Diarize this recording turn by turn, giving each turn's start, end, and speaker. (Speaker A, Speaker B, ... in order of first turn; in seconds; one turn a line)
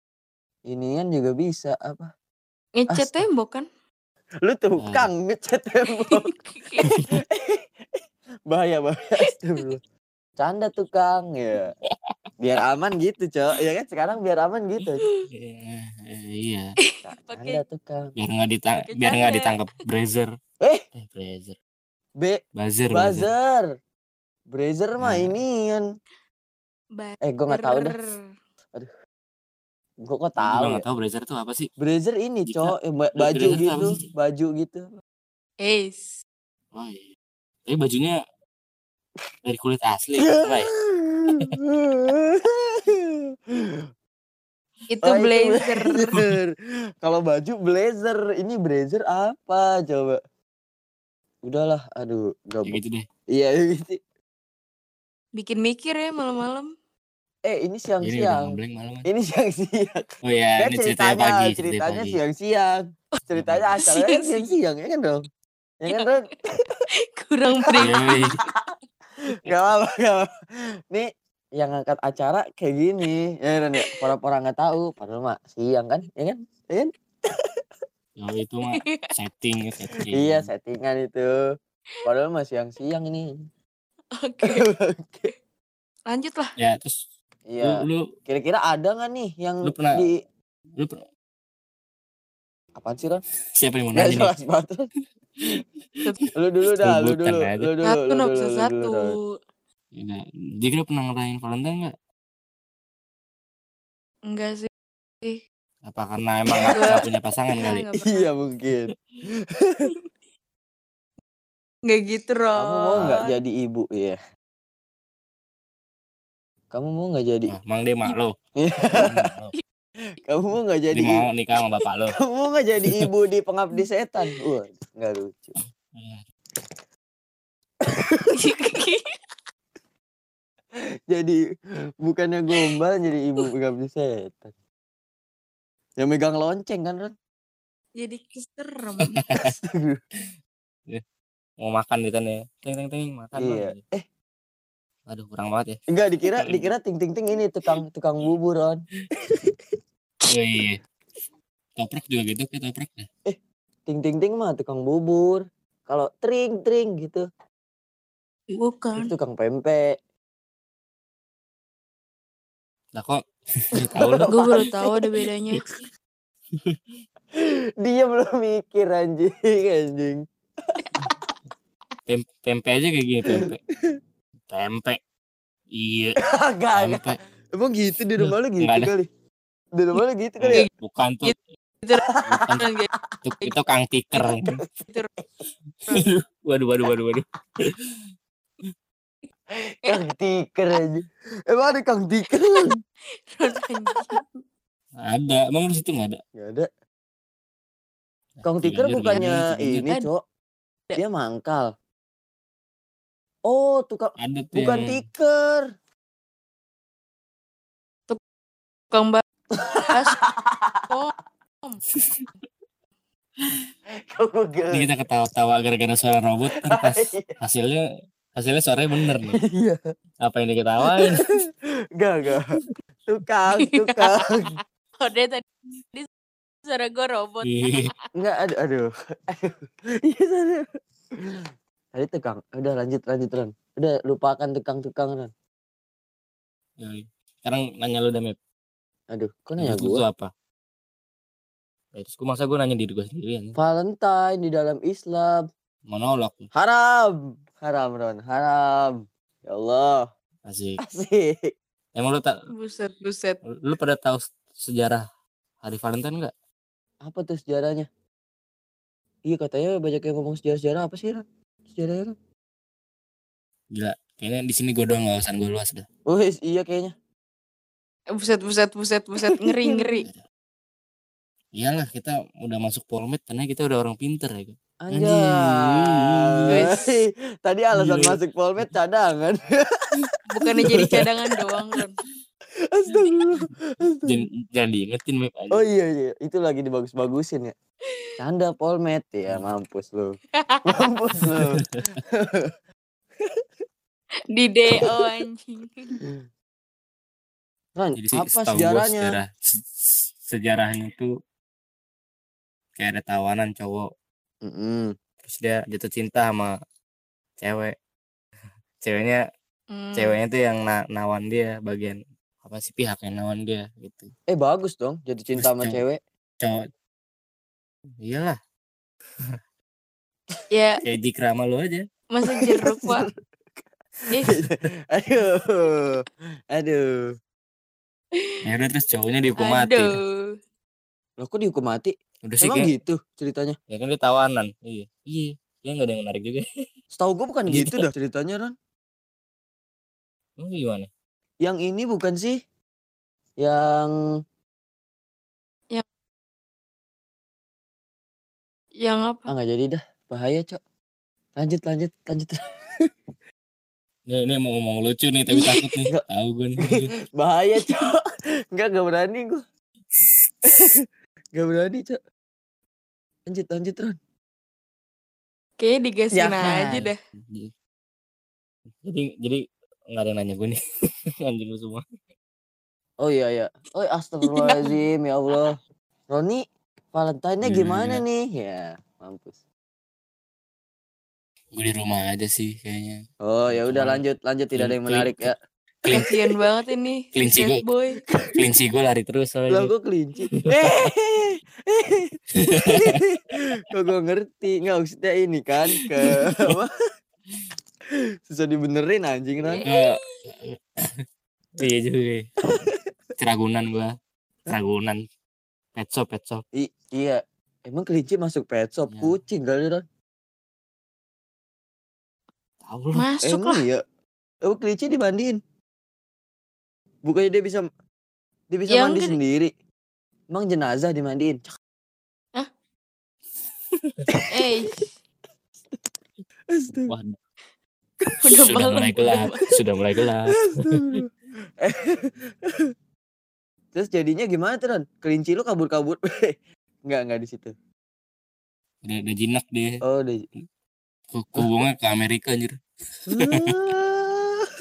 Speaker A: 0.7-2.1
Speaker B: 2.8-3.7
Speaker A: 4.4-7.6
Speaker C: 4.8-5.1
Speaker B: 6.0-6.9
Speaker A: 8.5-9.8
Speaker A: 10.4-11.7
Speaker A: 12.4-15.0
Speaker C: 15.3-16.8
Speaker B: 16.8-17.6
Speaker A: 17.1-18.1
Speaker C: 18.2-20.3
Speaker B: 18.8-19.5
Speaker C: 20.9-21.6
Speaker C: 22.6-23.3
Speaker A: 22.9-23.7
Speaker A: 24.5-25.8
Speaker C: 25.0-25.4
Speaker B: 27.0-28.2
Speaker A: 27.2-28.0
Speaker A: 30.0-30.8
Speaker C: 30.4-31.7
Speaker A: 31.8-34.9
Speaker C: 32.5-34.0
Speaker B: 35.6-36.2
Speaker C: 36.7-37.1
Speaker C: 37.7-38.2
Speaker C: 39.5-40.7
Speaker A: 40.2-43.2
Speaker B: 44.9-46.2
Speaker A: 45.0-50.2
Speaker A: 51.4-52.8
Speaker C: 52.7-53.1
Speaker A: 53.3-54.0
Speaker B: 55.4-56.7
Speaker A: 57.5-58.5
Speaker C: 58.0-59.1
Speaker A: 59.1-65.2
Speaker C: 60.2-62.2
Speaker C: 63.4-63.7
Speaker B: 63.8-64.5
Speaker A: 65.8-66.3
Speaker B: 65.9-66.3
Speaker B: 67.1-68.5
Speaker A: 67.5-68.6
Speaker C: 67.8-68.3
Speaker A: 69.3-70.3
Speaker A: 70.9-77.5
Speaker C: 78.2-80.5
Speaker B: 78.7-79.1
Speaker A: 80.1-81.4
Speaker A: 82.0-83.5
Speaker B: 84.2-84.7
Speaker A: 84.4-85.3
Speaker B: 86.1-86.5
Speaker C: 86.6-87.0
Speaker A: 87.5-90.2
Speaker C: 87.6-88.1
Speaker C: 89.6-90.0
Speaker C: 90.8-91.0
Speaker A: 92.8-93.2
Speaker C: 93.6-94.4
Speaker A: 94.0-94.9
Speaker C: 96.2-97.7
Speaker A: 96.3-99.2
Speaker B: 97.8-99.2
Speaker C: 99.9-101.9
Speaker B: 104.3-104.7
Speaker C: 105.8-107.9
Speaker B: 106.7-107.1
Speaker B: 107.6-108.3
Speaker A: 108.0-109.9
Speaker B: 111.9-113.3
Speaker A: 112.6-114.2
Speaker A: 116.7-117.5
Speaker C: 117.5-118.4
Speaker A: 118.6-119.3
Speaker C: 118.9-119.5
Speaker A: 120.2-121.3
Speaker C: 120.9-122.2
Speaker A: 122.1-125.6
Speaker C: 125.9-126.2
Speaker A: 127.8-128.5
Speaker B: 128.3-129.1
Speaker A: 131.1-131.4
Speaker A: 132.0-134.5
Speaker A: 136.0-137.1
Speaker B: 138.0-139.2
Speaker C: 139.1-139.5
Speaker A: 139.4-140.0
Speaker C: 141.6-143.8
Speaker A: 143.4-144.1
Speaker C: 145.1-145.8
Speaker A: 145.9-149.5
Speaker C: 146.4-146.7
Speaker C: 150.3-150.8
Speaker C: 151.8-153.1
Speaker A: 153.3-157.3
Speaker B: 158.5-159.1
Speaker A: 159.0-160.0
Speaker C: 162.9-163.2
Speaker C: 163.7-164.7
Speaker A: 163.9-164.9
Speaker B: 164.3-165.6
Speaker C: 166.5-166.8
Speaker A: 167.3-171.1
Speaker C: 172.1-173.6
Speaker A: 173.3-174.0
Speaker C: 174.5-175.0
Speaker C: 175.7-176.2
Speaker A: 176.2-179.1
Speaker C: 176.7-177.2
Speaker C: 178.2-178.9
Speaker A: 179.8-180.7
Speaker C: 180.4-181.3
Speaker B: 181.2-182.9
Speaker A: 181.9-183.1
Speaker C: 182.3-182.7
Speaker C: 183.2-184.6
Speaker A: 184.2-185.2
Speaker C: 186.0-187.8
Speaker A: 189.7-192.8
Speaker B: 193.3-194.4
Speaker C: 195.0-196.2
Speaker A: 196.4-196.7
Speaker C: 198.4-199.9
Speaker A: 198.4-200.2
Speaker A: 201.0-201.7
Speaker A: 203.5-205.7
Speaker C: 204.2-205.0
Speaker B: 208.9-209.2
Speaker A: 209.5-210.9
Speaker B: 209.9-210.2
Speaker A: 214.1-214.9
Speaker C: 214.7-217.8
Speaker A: 216.4-217.4
Speaker C: 218.3-219.4
Speaker A: 219.2-219.8
Speaker C: 220.2-221.3
Speaker A: 220.9-221.5
Speaker A: 222.0-224.6
Speaker B: 223.8-226.1
Speaker B: 226.7-228.1
Speaker C: 227.4-227.9
Speaker A: 228.2-230.7
Speaker A: 231.9-235.3
Speaker C: 236.8-238.4
Speaker A: 239.1-240.0
Speaker C: 239.6-240.3
Speaker C: 241.9-243.6
Speaker A: 243.6-245.5
Speaker C: 245.9-246.5
Speaker A: 246.5-250.1
Speaker C: 250.5-250.8
Speaker A: 250.8-251.5
Speaker C: 251.9-252.3
Speaker B: 252.6-253.4
Speaker C: 253.4-255.1
Speaker C: 255.6-256.3
Speaker A: 257.0-257.9
Speaker A: 259.2-262.1
Speaker C: 263.7-265.9
Speaker A: 266.1-266.9
Speaker B: 268.2-270.1
Speaker A: 269.3-270.0
Speaker C: 271.6-276.7
Speaker A: 274.8-279.9
Speaker B: 276.5-276.9
Speaker C: 277.8-278.2
Speaker B: 280.3-281.9
Speaker A: 280.4-281.1
Speaker A: 282.6-284.2
Speaker C: 283.0-283.5
Speaker C: 284.1-285.7
Speaker A: 285.5-287.6
Speaker A: 288.2-292.5
Speaker B: 290.4-290.9
Speaker B: 294.3-296.0
Speaker A: 294.8-295.0
Speaker A: 297.8-299.2
Speaker C: 298.0-301.1
Speaker C: 302.8-303.9
Speaker A: 304.4-304.9
Speaker C: 305.2-306.5
Speaker C: 307.4-307.8
Speaker C: 308.8-309.2
Speaker B: 309.7-310.1
Speaker C: 310.0-314.1
Speaker A: 314.3-316.0
Speaker C: 315.4-315.8
Speaker C: 318.0-318.4
Speaker B: 320.5-320.8
Speaker C: 320.9-321.9
Speaker B: 322.1-323.1
Speaker A: 322.2-323.1
Speaker A: 324.1-327.1
Speaker C: 328.4-330.0
Speaker B: 329.4-330.3
Speaker A: 331.2-333.6
Speaker C: 332.2-332.7
Speaker C: 333.7-336.4
Speaker A: 336.9-338.6
Speaker C: 337.5-337.9
Speaker C: 340.4-340.9
Speaker A: 341.4-342.4
Speaker A: 343.4-344.0
Speaker B: 348.8-349.3
Speaker A: 349.3-350.6
Speaker A: 351.4-352.4
Speaker C: 354.1-356.9
Speaker A: 356.6-359.4
Speaker A: 360.5-360.8
Speaker A: 361.3-362.0
Speaker A: 363.3-364.0
Speaker B: 365.6-367.0
Speaker A: 366.1-366.9
Speaker C: 366.7-367.5
Speaker C: 368.8-370.6
Speaker C: 371.2-371.8
Speaker A: 373.0-375.6
Speaker B: 374.3-374.8
Speaker A: 376.1-379.4
Speaker C: 377.4-378.0
Speaker C: 381.6-384.0
Speaker A: 383.2-385.4
Speaker C: 384.6-385.3
Speaker B: 385.9-388.1
Speaker A: 385.9-386.2
Speaker C: 387.1-387.6
Speaker C: 388.3-389.7
Speaker A: 389.5-396.7
Speaker C: 390.4-390.9
Speaker C: 392.4-393.0
Speaker C: 396.1-396.6
Speaker A: 398.3-399.6
Speaker B: 399.4-400.2
Speaker C: 399.6-400.6
Speaker C: 401.6-402.3
Speaker A: 402.5-402.8
Speaker C: 403.2-403.9
Speaker C: 404.5-405.0
Speaker C: 405.8-406.4
Speaker A: 406.5-409.9
Speaker C: 408.9-409.2
Speaker C: 412.6-413.1
Speaker B: 412.9-413.6
Speaker A: 413.2-413.8
Speaker A: 414.4-415.4
Speaker A: 417.0-417.7
Speaker A: 418.5-419.5
Speaker B: 418.7-419.2
Speaker A: 420.3-421.4
Speaker A: 424.1-424.5
Speaker B: 424.3-424.9
Speaker A: 426.5-426.9
Speaker C: 426.8-427.2
Speaker B: 428.2-429.5
Speaker C: 428.3-431.0
Speaker A: 430.3-431.1
Speaker A: 431.6-432.7
Speaker A: 433.7-437.5
Speaker C: 438.8-439.8
Speaker A: 439.8-440.3
Speaker C: 441.1-442.6
Speaker A: 443.1-444.5
Speaker C: 443.2-443.6